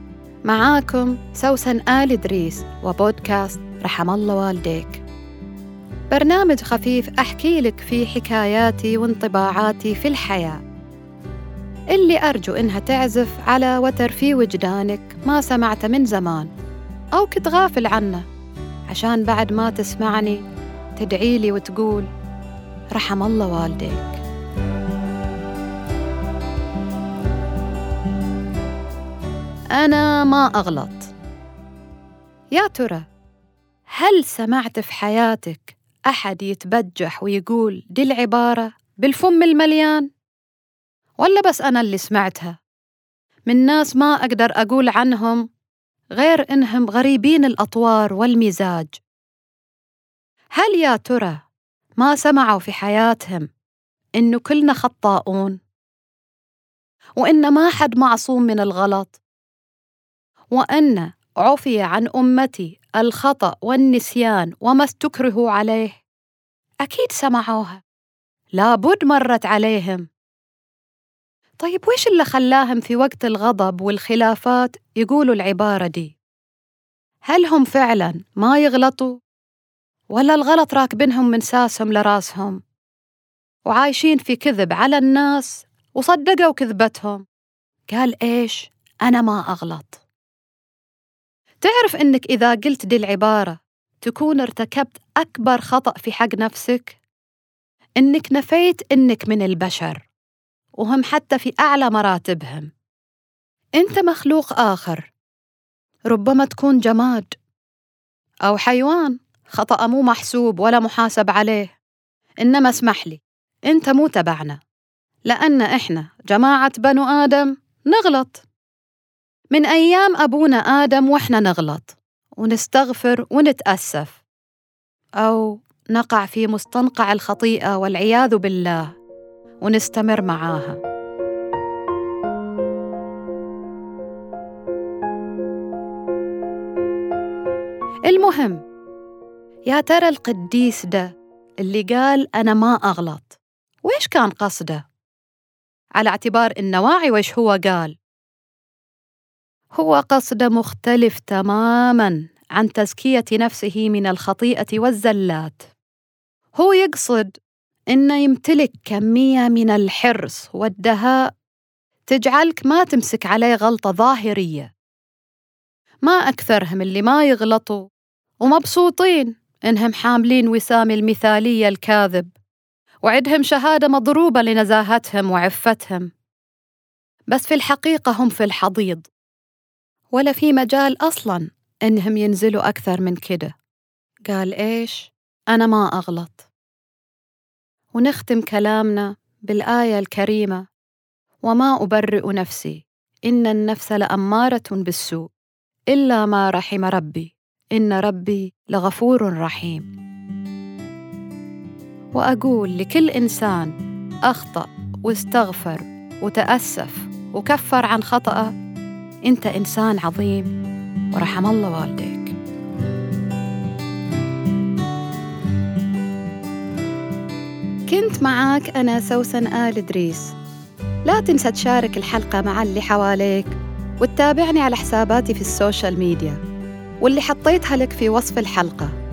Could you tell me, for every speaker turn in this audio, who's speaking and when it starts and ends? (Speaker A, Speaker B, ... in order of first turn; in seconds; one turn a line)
Speaker A: 0.4-5.0
Speaker A: 6.1-10.6
Speaker A: 11.9-16.5
Speaker A: 17.1-18.2
Speaker A: 18.9-20.4
Speaker A: 20.9-22.1
Speaker A: 22.9-24.2
Speaker A: 29.7-31.1
Speaker A: 32.5-33.1
Speaker A: 33.9-40.1
Speaker A: 41.2-42.6
Speaker A: 43.5-45.5
Speaker A: 46.1-49.0
Speaker A: 50.5-51.4
Speaker A: 52.0-53.5
Speaker A: 54.2-55.6
Speaker A: 57.2-59.2
Speaker A: 60.5-66.0
Speaker A: 66.8-67.8
Speaker A: 68.5-70.1
Speaker A: 71.6-76.1
Speaker A: 77.2-79.2
Speaker A: 80.1-82.6
Speaker A: 83.7-87.2
Speaker A: 87.9-90.0
Speaker A: 91.6-97.0
Speaker A: 98.0-100.1
Speaker A: 100.8-102.7
Speaker A: 103.8-105.1
Speaker A: 106.1-107.3
Speaker A: 108.4-111.7
Speaker A: 112.4-114.6
Speaker A: 115.2-118.5
Speaker A: 119.5-124.2
Speaker A: 125.2-128.9
Speaker A: 129.6-130.8
Speaker A: 138.1-138.6
Speaker A: 139.7-141.1
Speaker A: 141.6-144.8
Speaker A: 145.9-147.9
Speaker A: 149.7-155.7
Speaker A: 156.6-157.3
Speaker A: 157.9-161.3
Speaker A: 162.1-164.7
Speaker A: 166.0-167.8
Speaker A: 168.4-172.3
Speaker A: 173.0-176.1
Speaker A: 177.3-179.1
Speaker A: 180.1-183.5
Speaker A: 184.3-186.5
Speaker A: 187.9-190.7
Speaker A: 191.4-195.3
Speaker A: 195.9-199.9
Speaker A: 202.1-203.7
Speaker A: 204.2-208.5
Speaker A: 209.2-210.5
Speaker A: 211.1-212.3
Speaker A: 217.9-220.3
Speaker A: 221.1-226.4
Speaker A: 227.0-228.9